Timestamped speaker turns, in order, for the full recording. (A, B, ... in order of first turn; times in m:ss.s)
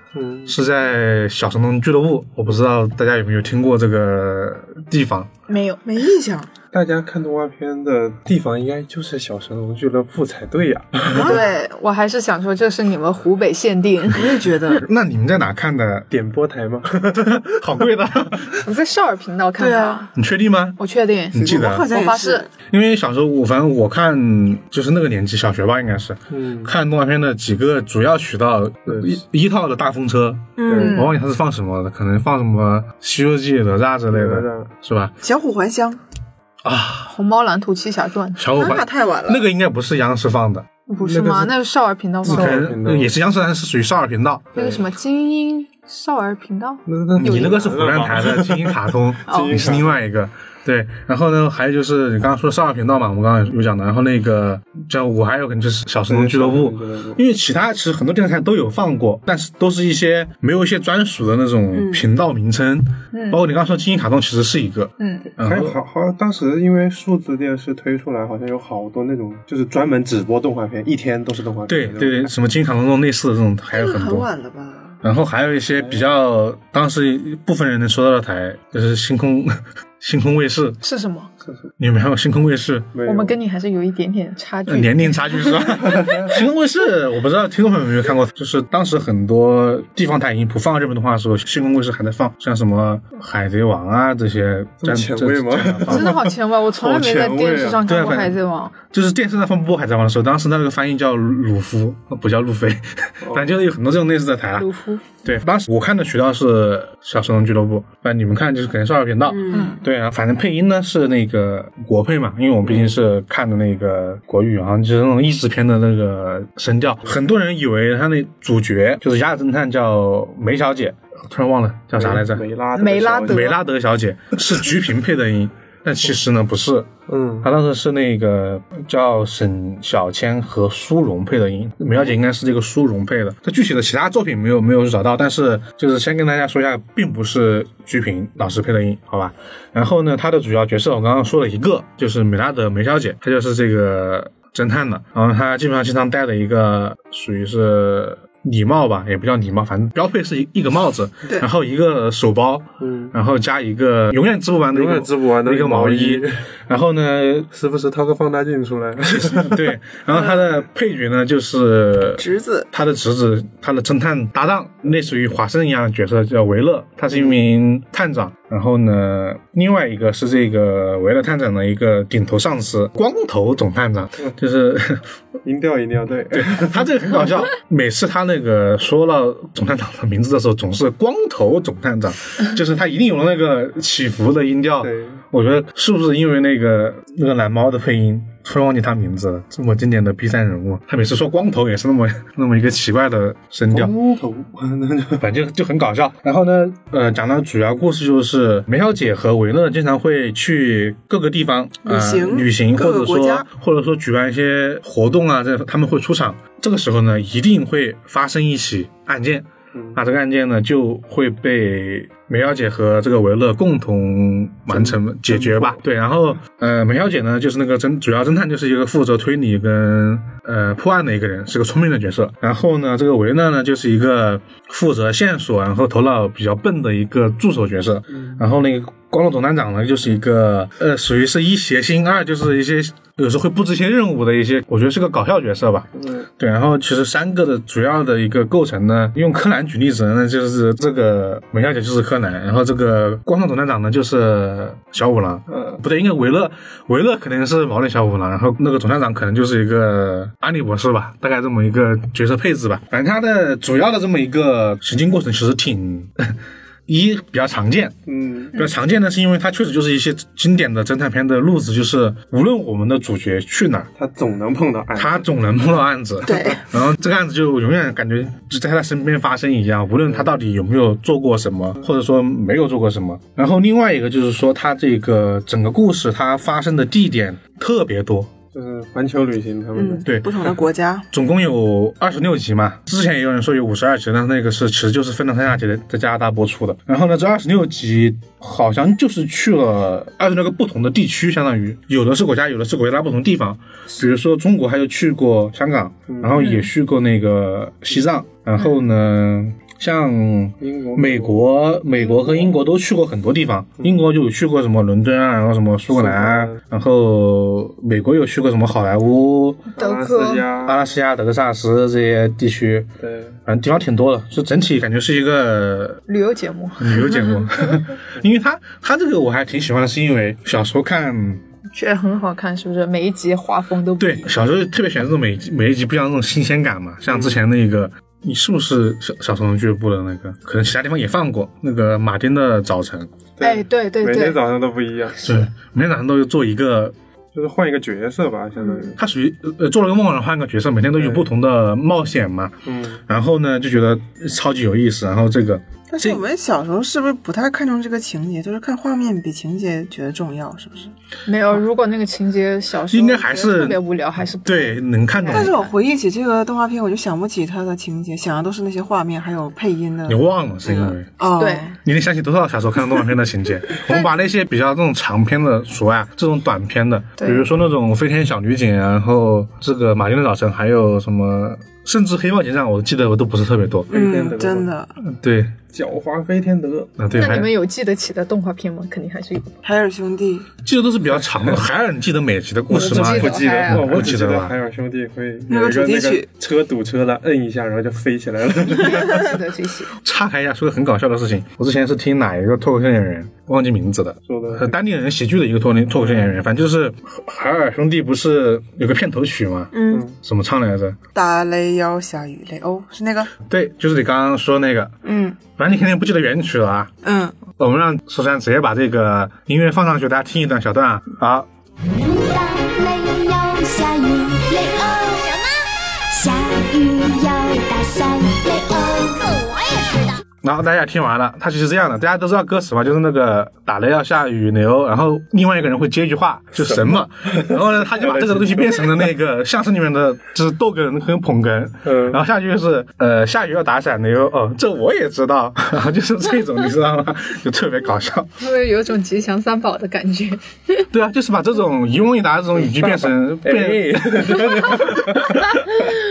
0:00.1-0:00.6 A
0:00.4-0:05.3 B
0:05.5-0:05.8 C
0:05.8-0:06.5 D
0:06.7-0:11.4 A
0:11.1-0:11.5 D
0:11.2-0:14.4 C
0:14.1-0:14.8 D
0:14.8-0:16.1 B
0:16.1-0:16.9 A
0:16.9-0:18.6 B
0:18.6-0:20.1 C
0:19.6-0:20.0 D
0:20.1-0:20.8 B
0:20.8-0:22.4 C
0:21.3-0:21.9 B
0:21.4-0:22.5 D
0:22.7-0:35.1 B
0:26.3-0:26.7 A
0:28.9-0:29.2 A
0:30.6-0:31.0 D
0:30.6-0:30.9 A
0:30.7-0:31.2 C
0:34.1-0:34.7 A
0:35.2-0:36.0 D
0:36.6-0:37.1 B
0:37.0-0:38.4 C
0:38.4-0:40.7 B
0:38.6-0:39.4 D
0:40.9-0:42.6 C
0:41.0-0:41.5 A
0:42.2-0:43.1 A
0:42.2-0:44.5 B
0:44.5-0:44.8 A
0:44.5-0:47.5 C
0:46.8-0:50.0 A
0:47.2-1:05.8 B
0:49.3-0:49.6 C
0:56.1-0:57.2 A
1:01.7-1:02.0 D
1:03.1-1:03.4 C
1:05.0-1:05.2 C
1:05.3-1:12.3 A
1:11.7-1:14.3 B
1:13.7-1:15.0 D
1:15.0-1:20.8 B
1:15.8-1:16.0 A
1:20.8-1:21.3 C
1:21.4-1:21.7 A
1:21.8-1:22.9 B
1:22.9-1:23.4 A
1:23.0-1:26.0 C
1:24.7-1:44.7 B
1:34.8-1:36.3 A
1:35.9-1:38.7 C
1:37.4-1:37.8 A
1:43.2-1:43.6 A
1:44.6-1:45.0 C
1:45.2-2:02.4 B
1:49.3-1:49.8 D
1:49.5-1:49.8 C
1:52.6-1:53.0 A
2:01.9-2:03.5 A
2:02.7-2:03.6 C
2:03.3-2:06.9 B
2:07.1-2:07.5 A
2:07.4-2:37.5 B
2:32.8-2:33.1 A
2:34.7-2:36.4 A
2:37.5-2:39.7 A
2:39.1-2:55.1 B
2:42.2-2:42.7 D
2:47.1-2:47.4 A
2:55.4-2:56.9 A
2:56.3-3:13.9 B
3:04.8-3:05.2 A
3:13.7-3:15.3 A
3:15.2-4:16.4 B
3:21.8-3:23.4 D
3:29.7-3:30.0 A
3:34.7-3:35.8 A
3:48.1-3:48.4 A
3:56.0-3:56.3 A
4:05.5-4:05.8 A
4:16.9-4:18.0 B
4:18.1-4:18.5 A
4:18.5-4:23.9 B
4:24.0-4:25.3 A
4:25.0-4:38.3 B
4:26.2-4:26.6 D
4:38.5-4:40.1 A
4:39.7-4:41.1 D
4:41.1-5:09.6 B
4:56.1-4:56.5 A
4:56.4-4:56.7 C
5:00.6-5:01.4 A
5:05.9-5:06.6 A
5:09.8-5:10.8 A
5:09.8-5:10.5 C
5:10.6-5:12.9 B
5:13.0-5:13.4 A
5:13.4-5:16.0 B
5:16.1-5:17.8 C
5:16.8-5:21.4 B
5:21.7-5:24.3 C
5:24.0-5:33.1 B
5:27.1-5:27.4 A
5:33.4-5:35.4 A
5:33.4-5:34.4 C
5:35.2-5:36.9 B
5:37.3-5:39.0 A
5:39.0-5:42.5 B
5:41.0-5:41.2 A
5:42.6-5:43.0 A
5:43.1-5:46.2 B
5:45.9-5:50.9 D
5:51.3-5:55.7 C
5:52.9-5:53.8 B
5:54.4-5:55.5 B
5:55.3-6:01.8 D
6:00.1-6:01.1 B
6:01.4-6:01.6 C
6:01.8-6:13.9 B
6:07.2-6:07.5 C
6:13.9-6:14.7 A
6:13.9-6:14.9 D
6:15.0-6:15.5 B
6:15.7-6:17.0 A
6:17.0-6:17.5 B
6:17.1-6:19.5 C
6:19.6-6:20.5 D
6:20.6-6:24.5 B
6:22.7-6:29.3 A
6:22.7-6:23.9 C
6:25.5-6:26.3 D
6:29.0-6:29.9 C
6:30.0-6:41.0 B
6:34.3-6:34.7 A
6:36.0-6:36.4 A
6:39.7-6:40.0 D
6:39.9-6:40.1 A
6:41.1-6:43.3 D
6:43.5-6:44.9 B
6:45.0-6:45.4 D
6:45.6-6:46.9 B
6:47.0-6:47.4 D
6:47.6-6:51.5 B
6:51.9-6:55.5 E
6:56.1-7:00.2 E
7:00.4-7:18.4 B
7:06.6-7:09.1 A
7:11.8-7:12.2 A
7:18.4-7:20.8 C
7:20.9-7:25.6 B
7:22.6-7:25.4 A